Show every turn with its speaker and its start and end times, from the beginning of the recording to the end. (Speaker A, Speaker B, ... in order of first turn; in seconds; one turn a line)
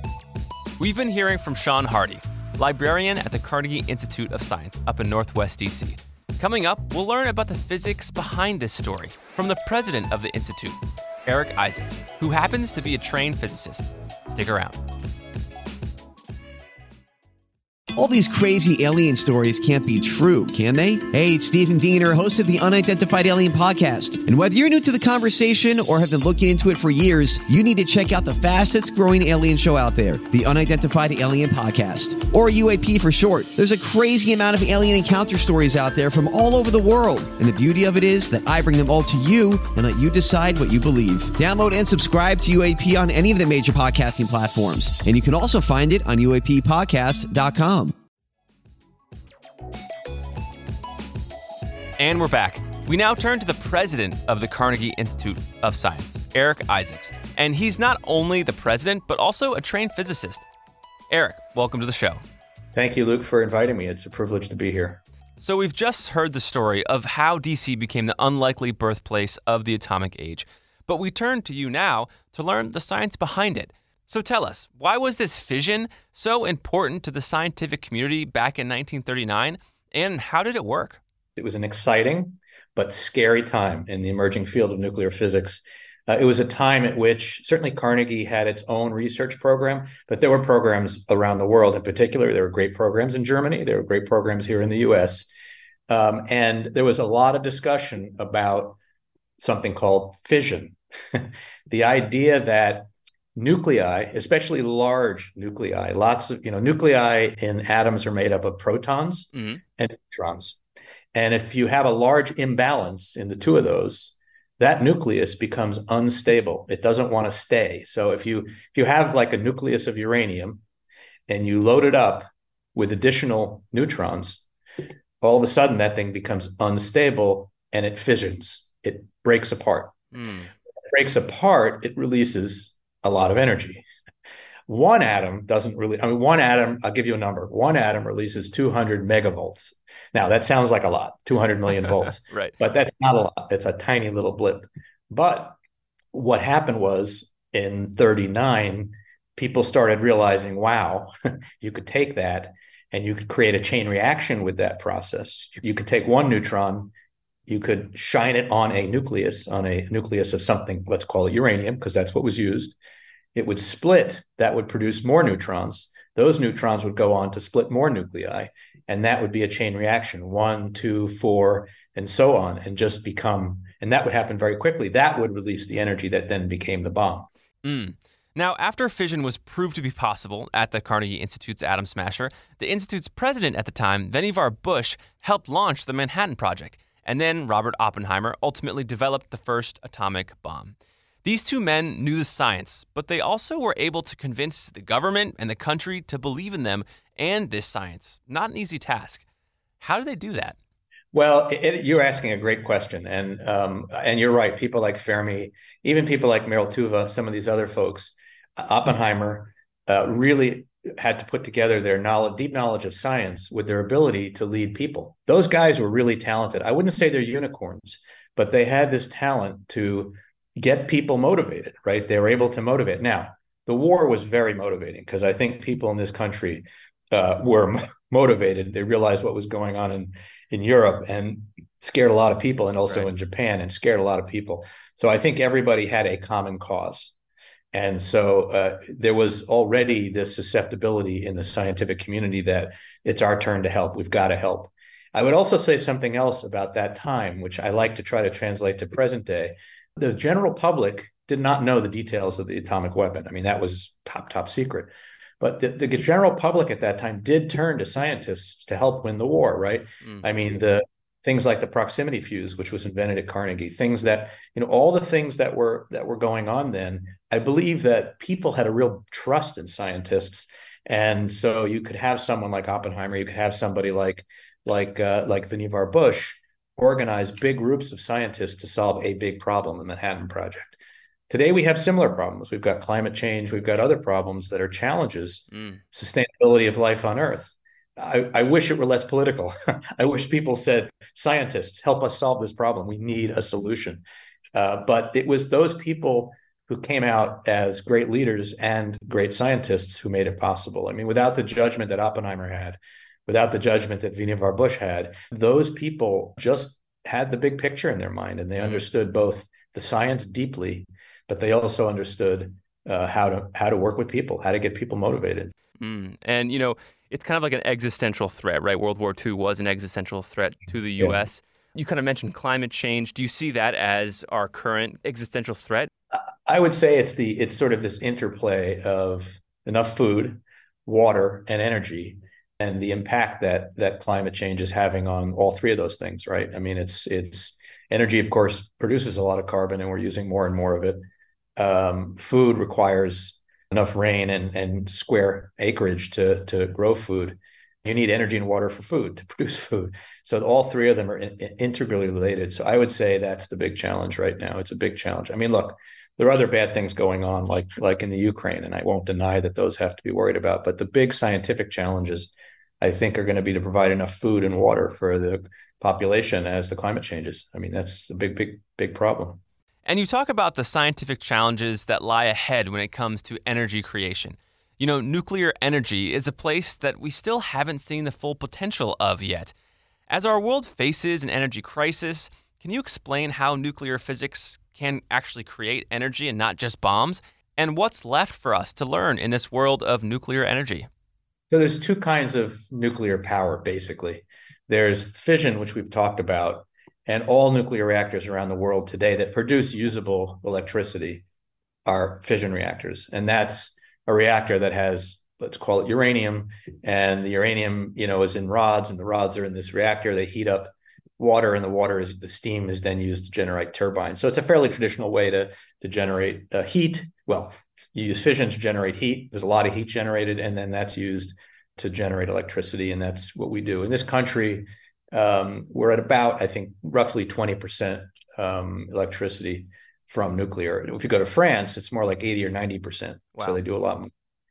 Speaker A: 0.8-14.8
Speaker B: 17.9-47.9
Speaker A: 52.0-60.5
Speaker A: 61.1-62.2
Speaker C: 62.7-65.0
Speaker A: 65.4-81.0
Speaker C: 81.4-95.3
Speaker C: 95.9-98.8
Speaker C: 99.4-110.6
Speaker A: 109.3-109.6
Speaker C: 111.1-120.6
Speaker C: 121.3-124.4
Speaker C: 125.2-130.1
Speaker A: 130.1-130.5
Speaker C: 130.9-133.8
Speaker C: 134.7-145.6
Speaker C: 146.1-156.9
Speaker C: 157.5-162.8
Speaker C: 163.3-177.3
Speaker A: 177.6-199.2
Speaker A: 199.8-200.6
Speaker C: 201.1-237.1
Speaker C: 237.7-280.8
Speaker C: 281.3-294.0
Speaker A: 285.5-285.8
Speaker C: 294.5-315.5
Speaker A: 308.6-308.8
Speaker A: 315.8-325.9
Speaker C: 326.1-341.0
Speaker C: 341.6-362.3
Speaker C: 362.8-369.4
Speaker A: 369.9-379.5
Speaker A: 380.1-390.9
Speaker C: 391.5-401.2
Speaker C: 401.9-434.1